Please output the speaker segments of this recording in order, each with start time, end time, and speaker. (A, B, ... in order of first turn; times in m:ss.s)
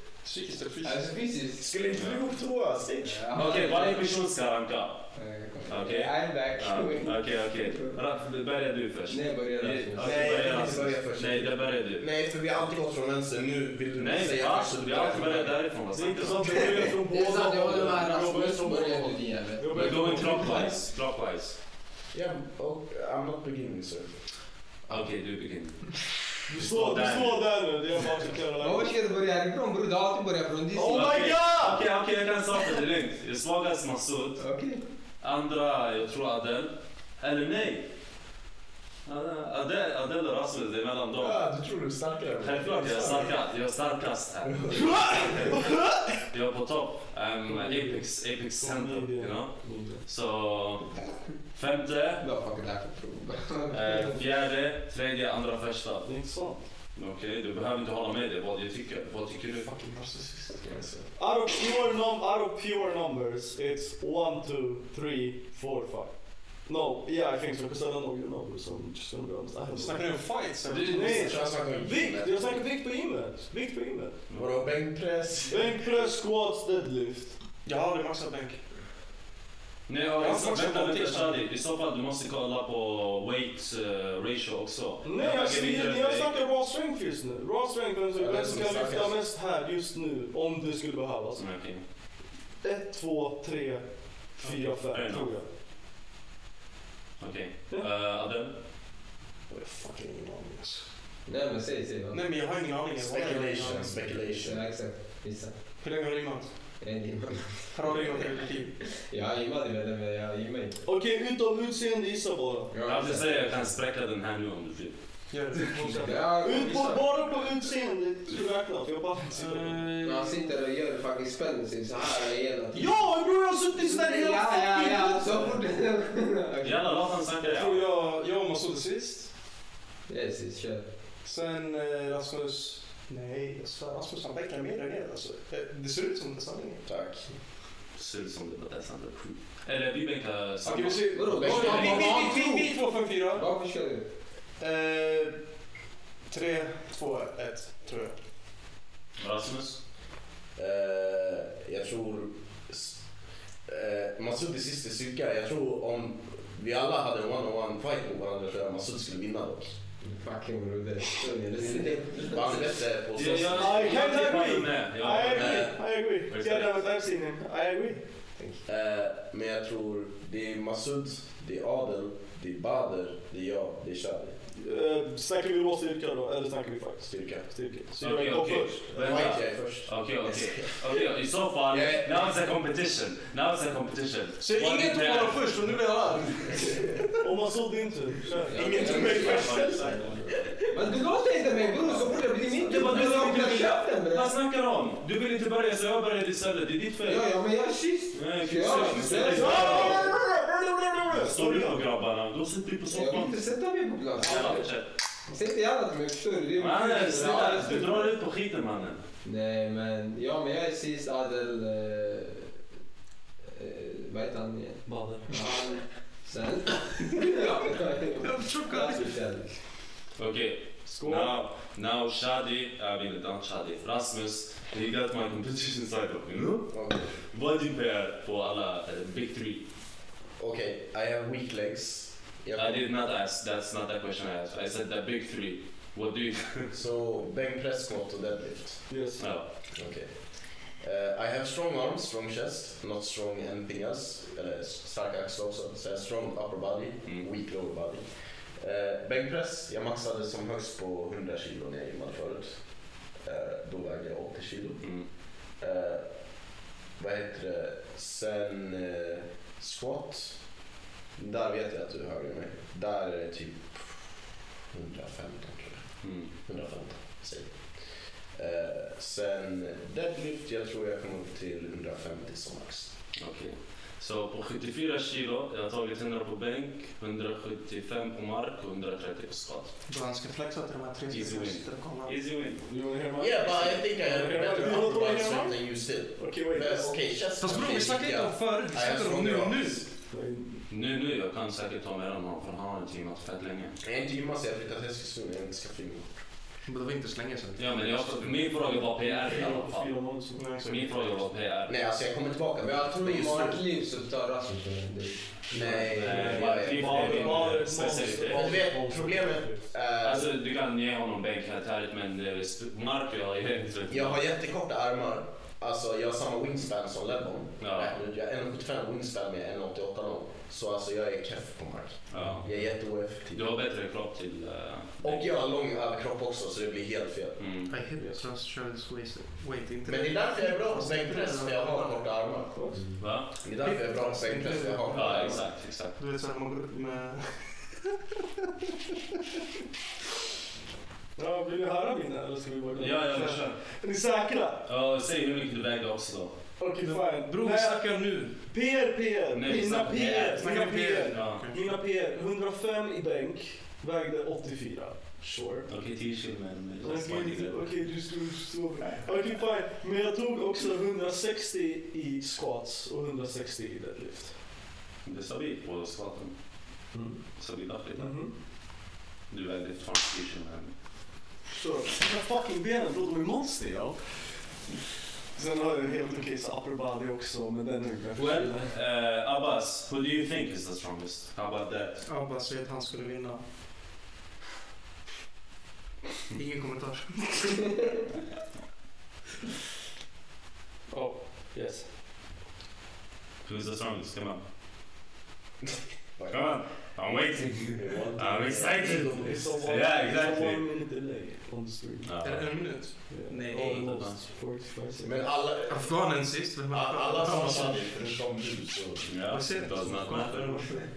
0:00.2-0:01.1 A
0:00.8-0:01.8 B
0:01.6-0:03.3 C
0:01.9-0:02.2 D
0:03.0-0:04.2 B
0:03.3-0:05.1 D
0:05.1-0:07.9 B
0:05.7-0:12.1 D
0:09.1-0:10.9 B
0:10.0-0:15.6 C
0:14.0-0:16.6 D
0:15.9-0:20.7 E
0:16.6-0:20.6 B
0:19.7-0:21.6 D
0:22.1-0:24.1 C
0:24.9-0:27.5 D
0:26.5-0:28.9 E
0:28.6-0:31.3 B
0:30.7-0:31.8 E
0:30.8-0:34.4 D
0:34.4-0:34.8 B
0:35.2-0:37.9 D
0:39.0-0:41.4 D
0:41.2-0:43.4 C
0:42.4-0:44.9 D
0:44.4-0:45.6 C
0:44.7-0:46.1 E
0:46.3-0:52.2 D
0:47.5-0:50.0 E
0:52.2-0:54.2 B
0:53.7-0:56.2 D
0:56.0-0:56.6 E
0:57.0-0:59.7 D
0:59.5-1:00.6 A
1:00.6-1:01.1 C
1:01.2-1:06.1 E
1:06.6-1:14.2 E
1:09.7-1:11.5 A
1:10.9-1:12.6 C
1:14.4-1:15.8 C
1:15.5-1:17.4 E
1:17.6-1:18.6 A
1:19.9-1:26.3 D
1:20.2-1:21.4 A
1:25.0-1:31.4 E
1:28.2-1:29.2 C
1:31.4-1:31.8 D
1:32.6-1:35.5 E
1:34.9-1:35.3 D
1:37.2-1:38.5 D
1:39.5-1:40.9 A
1:41.3-1:42.2 B
1:42.1-1:44.1 A
1:43.0-1:44.7 C
1:44.3-1:45.6 B
1:45.8-1:46.5 A
1:46.8-1:48.3 B
1:47.7-1:48.8 A
1:48.8-1:50.8 B
1:50.8-1:52.7 E
1:52.7-1:53.6 B
1:52.8-1:55.0 D
1:55.3-1:56.2 A
1:55.7-1:59.9 E
1:55.9-1:57.1 B
1:59.3-2:00.5 A
2:00.0-2:03.1 B
2:02.7-2:05.6 E
2:03.7-2:07.1 B
2:06.6-2:07.8 D
2:07.4-2:09.3 A
2:10.1-2:10.9 B
2:11.2-2:16.8 A
2:16.9-2:17.3 C
2:17.9-2:22.2 D
2:20.6-2:23.5 A
2:21.1-2:24.1 B
2:21.3-2:22.4 C
2:24.6-2:25.4 A
2:26.3-2:28.2 A
2:29.2-2:29.8 D
2:30.6-2:33.0 C
2:33.7-2:39.8 C
2:40.0-2:42.8 B
2:41.6-2:44.0 C
2:43.2-2:46.8 D
2:43.5-2:48.0 E
2:45.3-2:45.7 C
2:48.4-2:48.6 B
2:48.7-2:54.4 C
2:54.6-2:59.3 E
2:57.1-2:57.5 C
2:58.0-3:05.5 D
2:59.0-3:00.9 C
3:01.7-3:02.1 C
3:04.4-3:07.1 A
3:07.2-3:08.7 E
3:08.5-3:10.0 B
3:08.5-3:10.6 C
3:09.0-3:10.2 D
3:10.7-3:14.4 B
3:12.6-3:17.3 D
3:17.0-3:20.3 B
3:18.1-3:20.1 D
3:19.3-3:20.2 E
3:19.4-3:21.3 C
3:21.1-3:21.8 E
3:21.1-3:23.5 D
3:22.9-3:24.7 B
3:24.2-3:25.0 D
3:25.3-3:28.2 B
3:26.6-3:29.1 D
3:29.2-3:32.6 B
3:33.5-3:39.5 B
3:34.9-3:35.2 E
3:38.2-3:39.1 A
3:40.2-3:49.6 D
3:40.8-3:41.4 E
3:46.7-3:47.2 C
3:50.4-3:52.9 C
3:52.6-3:56.7 D
3:56.7-3:59.0 C
3:58.9-3:59.2 E
3:59.2-3:59.5 D
3:59.8-4:08.1 C
4:08.6-4:15.1 C
4:15.6-4:16.1 C
4:17.0-4:20.4 C
4:21.2-4:33.0 C
4:26.0-4:26.3 D
4:33.2-4:39.7 D
4:39.9-4:42.2 A
4:41.1-4:42.7 D
4:42.6-4:46.9 E
4:43.2-4:49.9 C
4:47.4-4:49.8 A
4:50.1-4:50.6 E
4:50.7-4:53.8 D
4:53.8-4:56.2 C
4:56.7-4:57.8 A
4:57.6-5:00.1 D
4:59.1-5:00.4 E
5:00.3-5:01.3 A
5:00.6-5:01.7 D
5:01.7-5:03.6 C
5:02.6-5:06.0 B
5:05.5-5:07.6 C
5:05.5-5:08.6 D
5:06.0-5:09.6 E
5:08.3-5:10.3 C
5:10.0-5:14.2 D
5:13.9-5:23.5 C
5:17.6-5:18.0 D
5:22.1-5:22.5 D
5:22.2-5:22.4 E
5:23.3-5:25.2 D
5:25.0-5:27.4 C
5:27.4-5:27.7 D
5:27.7-5:32.1 A
5:28.0-5:28.2 E
5:29.9-5:32.6 C
5:32.5-5:32.9 E
5:32.7-5:33.0 B
5:33.0-5:33.4 D
5:33.2-5:35.4 C
5:33.6-5:38.0 A
5:34.9-5:36.0 D
5:41.2-5:44.6 E
5:42.8-5:43.6 D
5:43.1-5:43.4 A
5:44.7-5:46.4 D
5:46.6-5:55.7 E
5:46.8-5:48.4 A
5:49.3-5:50.5 D
5:50.3-5:51.7 A
5:51.1-5:51.5 D
5:55.7-5:57.7 D
5:56.8-6:04.4 E
6:05.0-6:06.4 D
6:06.9-6:07.2 E
6:07.4-6:08.3 D
6:08.0-6:08.3 E
6:09.3-6:10.7 D
6:11.6-6:14.4 E
6:15.3-6:18.7 E
6:18.2-6:22.0 D
6:22.0-6:23.4 A
6:26.3-6:27.8 A
6:30.9-6:31.8 E
6:33.4-6:34.4 D
6:36.2-6:36.5 C
6:36.3-6:40.7 D
6:37.7-6:39.5 C
6:39.2-6:42.4 E
6:42.0-6:42.5 D
6:42.2-6:43.9 A
6:43.1-6:45.2 E
6:43.7-6:44.2 D
6:45.0-6:45.9 C
6:45.7-6:48.2 A
6:46.7-6:49.1 C
6:49.0-6:50.8 D
6:49.3-6:50.8 A